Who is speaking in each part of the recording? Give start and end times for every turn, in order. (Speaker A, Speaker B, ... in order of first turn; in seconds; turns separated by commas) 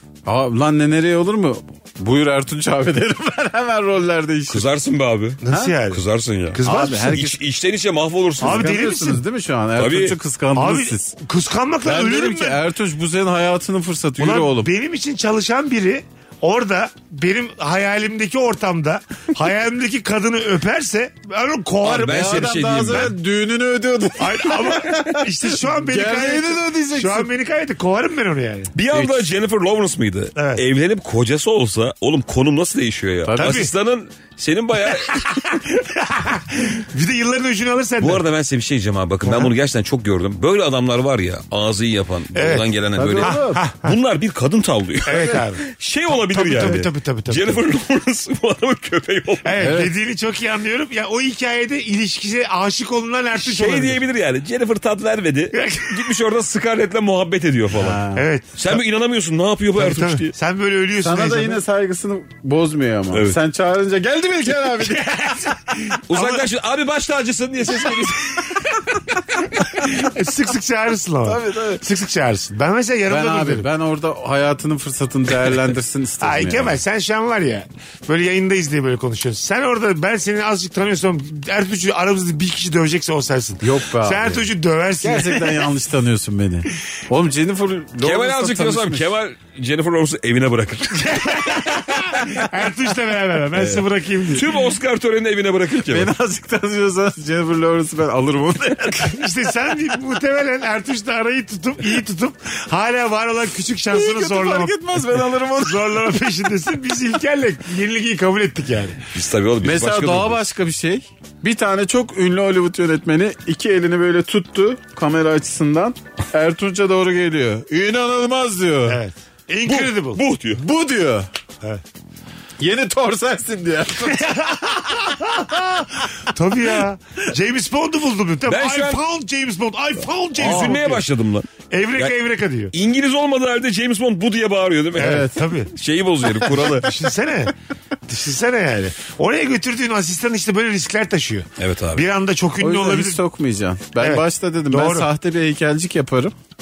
Speaker A: 0.2-4.7, Speaker B: 4.5-8.7, Speaker C: 5.4-7.2, Speaker A: 5.5-5.7, Speaker A: 6.6-7.4, Speaker C: 8.4-9.2, Speaker A: 8.4-11.1, Speaker B: 9.8-10.2, Speaker C: 10.5-12.6, Speaker A: 11.8-14.7, Speaker C: 14.2-22.5, Speaker B: 21.8-23.1, Speaker A: 22.0-27.3, Speaker C: 24.2-28.7, Speaker B: 28.7-35.4, Speaker A: 28.9-29.2, Speaker C: 30.4-30.6, Speaker A: 33.2-33.6, Speaker C: 33.4-33.7, Speaker C: 34.9-38.2, Speaker B: 38.0-49.6, Speaker C: 42.3-42.7, Speaker A: 43.0-43.6, Speaker C: 43.2-43.9, Speaker C: 45.0-47.6, Speaker C: 49.4-54.0, Speaker A: 49.6-49.9, Speaker B: 53.4-58.0, Speaker C: 55.5-56.0, Speaker A: 57.8-58.2, Speaker C: 58.1-58.7, Speaker B: 58.5-60.3, Speaker C: 59.8-61.6, Speaker A: 61.0-65.1, Speaker B: 63.1-63.4, Speaker C: 64.8-66.5, Speaker B: 66.1-68.7, Speaker C: 69.6-73.7, Speaker A: 71.2-71.8, Speaker A: 73.1-76.8, Speaker C: 76.2-85.7, Speaker A: 83.6-84.5, Speaker A: 85.0-89.1, Speaker B: 88.0-91.7, Speaker C: 90.9-94.5, Speaker A: 93.5-93.8, Speaker B: 94.3-96.1, Speaker A: 95.9-99.2, Speaker C: 99.0-109.0, Speaker A: 103.9-106.1, Speaker B: 109.1-110.4, Speaker A: 109.6-119.0, Speaker C: 118.9-120.2, Speaker B: 119.7-120.6, Speaker A: 120.5-121.3, Speaker A: 122.6-124.9, Speaker C: 124.1-131.0, Speaker B: 128.5-129.0, Speaker B: 130.4-132.1, Speaker C: 131.7-132.7, Speaker B: 132.7-136.9, Speaker C: 134.9-135.7, Speaker A: 135.0-135.3, Speaker C: 136.6-137.5, Speaker C: 138.1-143.2, Speaker B: 141.6-142.0, Speaker A: 142.6-146.3, Speaker C: 144.0-145.1